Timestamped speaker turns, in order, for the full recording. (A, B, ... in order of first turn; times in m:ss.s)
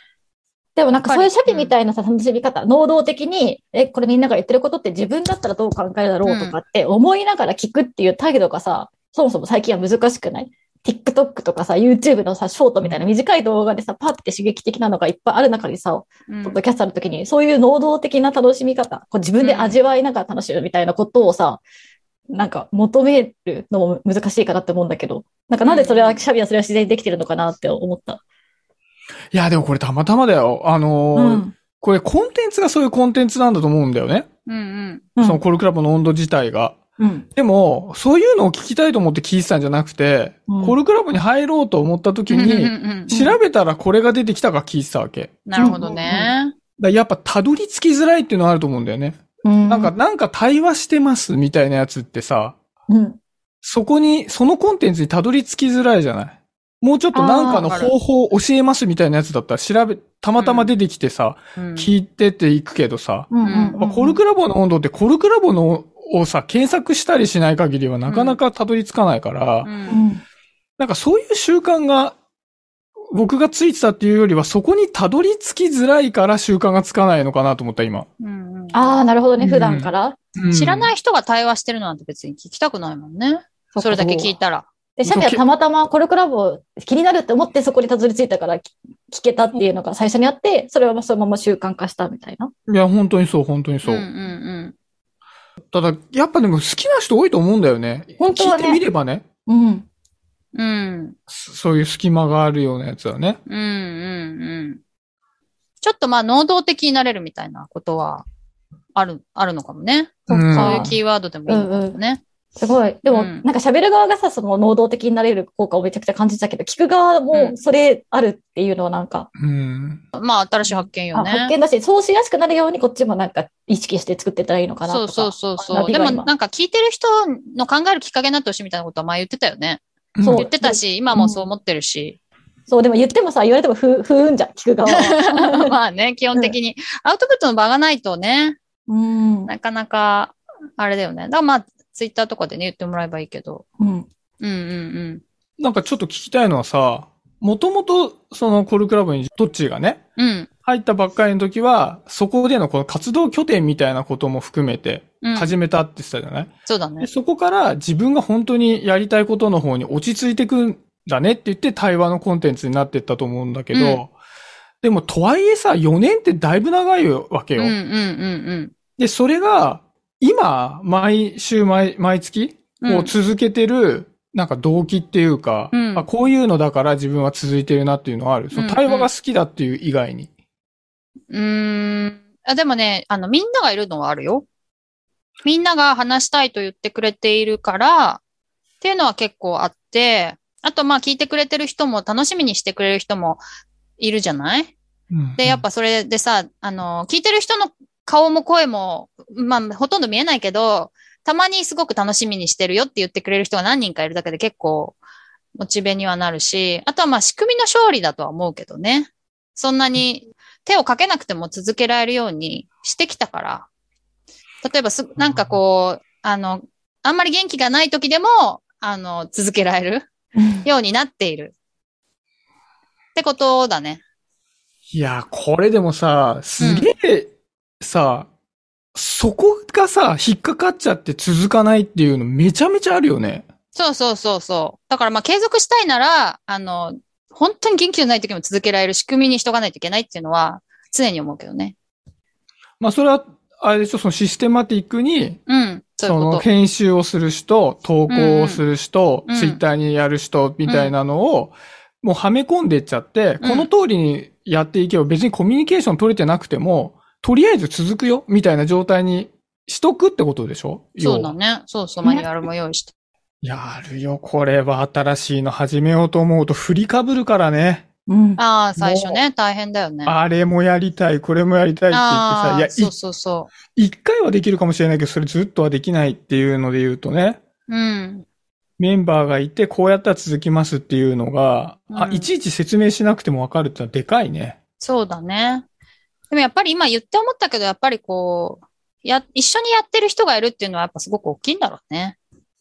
0:00.8-0:21.6 A
0:01.0-0:01.7 B
0:06.2-0:06.6 B
0:16.3-0:16.6 B
0:19.4-0:19.8 B
0:22.3-0:28.2 A
0:25.6-0:26.2 B
0:29.3-0:34.3 C
0:31.2-0:31.5 A
0:34.5-0:35.0 B
0:35.2-0:36.8 C
0:37.0-0:37.3 A
0:37.4-0:45.8 C
0:40.5-0:40.7 A
0:42.3-0:43.1 B
0:43.1-0:43.4 A
0:45.4-0:46.6 B
0:45.6-0:46.4 A
0:46.8-0:52.6 C
0:49.4-0:49.9 A
0:52.9-0:53.2 A
0:53.6-1:09.7 C
0:57.1-0:57.7 A
0:57.6-0:57.9 B
1:00.4-1:00.7 B
1:01.6-1:01.9 B
1:03.3-1:04.2 A
1:03.4-1:03.8 B
1:08.1-1:08.4 B
1:09.6-1:10.0 B
1:09.9-1:10.2 A
1:10.8-1:12.2 C
1:13.1-1:18.1 C
1:18.2-1:19.0 B
1:18.7-1:20.2 A
1:19.4-1:20.9 C
1:20.5-1:24.7 B
1:23.7-1:24.3 A
1:25.0-1:32.5 A
1:25.1-1:25.4 C
1:32.7-1:34.1 C
1:33.8-1:34.7 B
1:35.7-1:39.2 C
1:38.2-1:38.8 A
1:39.5-1:39.9 A
1:40.5-1:41.2 B
1:41.3-1:43.4 C
1:43.5-1:44.8 B
1:45.8-1:48.3 B
1:49.0-1:52.2 B
1:50.3-1:50.9 A
1:50.3-1:51.0 C
1:51.5-1:52.0 A
1:52.6-1:59.3 A
1:53.1-1:53.4 B
1:59.4-2:00.0 C
2:00.1-2:01.5 B
2:00.6-2:06.3 A
2:04.9-2:12.2 B
2:10.2-2:10.5 C
2:10.2-2:11.5 A
2:12.7-2:15.7 A
2:14.9-2:18.6 B
2:18.9-2:19.5 A
2:19.5-2:23.6 B
2:23.8-2:24.1 A
2:24.4-2:25.2 B
2:25.6-2:30.0 C
2:30.2-2:30.5 B
2:30.6-2:44.1 C
2:35.2-2:35.6 B
2:36.7-2:37.1 B
2:43.7-2:44.0 B
2:44.8-2:47.8 C
2:47.6-2:48.7 B
2:49.0-3:00.3 C
2:52.8-2:53.1 B
2:55.7-2:56.1 B
2:58.5-2:59.1 B
3:01.3-3:04.5 B
3:05.4-3:08.2 B
3:08.8-3:13.4 B
3:14.0-3:14.7 B
3:15.1-3:15.7 C
3:15.4-3:25.0 B
3:25.6-3:33.7 B
3:34.6-3:40.1 B
3:35.2-3:35.6 C
3:40.4-3:40.7 A
3:40.6-3:41.6 B
3:43.2-3:44.0 B
3:44.9-3:48.3 C
3:46.6-3:46.9 B
3:48.9-3:53.4 C
3:53.7-4:01.8 B
4:02.8-4:05.4 C
4:05.5-4:06.5 B
4:06.0-4:21.4 C
4:08.1-4:08.6 B
4:09.3-4:09.6 B
4:10.6-4:11.0 B
4:13.4-4:13.7 B
4:21.0-4:22.9 B
4:22.0-4:22.3 A
4:23.4-4:27.9 C
4:28.1-4:28.4 A
4:28.4-4:30.2 B
4:28.8-4:29.2 C
4:30.0-4:32.9 C
4:31.9-4:33.5 B
4:33.8-4:37.4 C
4:37.7-4:38.2 B
4:38.8-4:44.6 C
4:41.9-4:42.3 B
4:44.8-4:45.6 B
4:46.3-4:52.2 B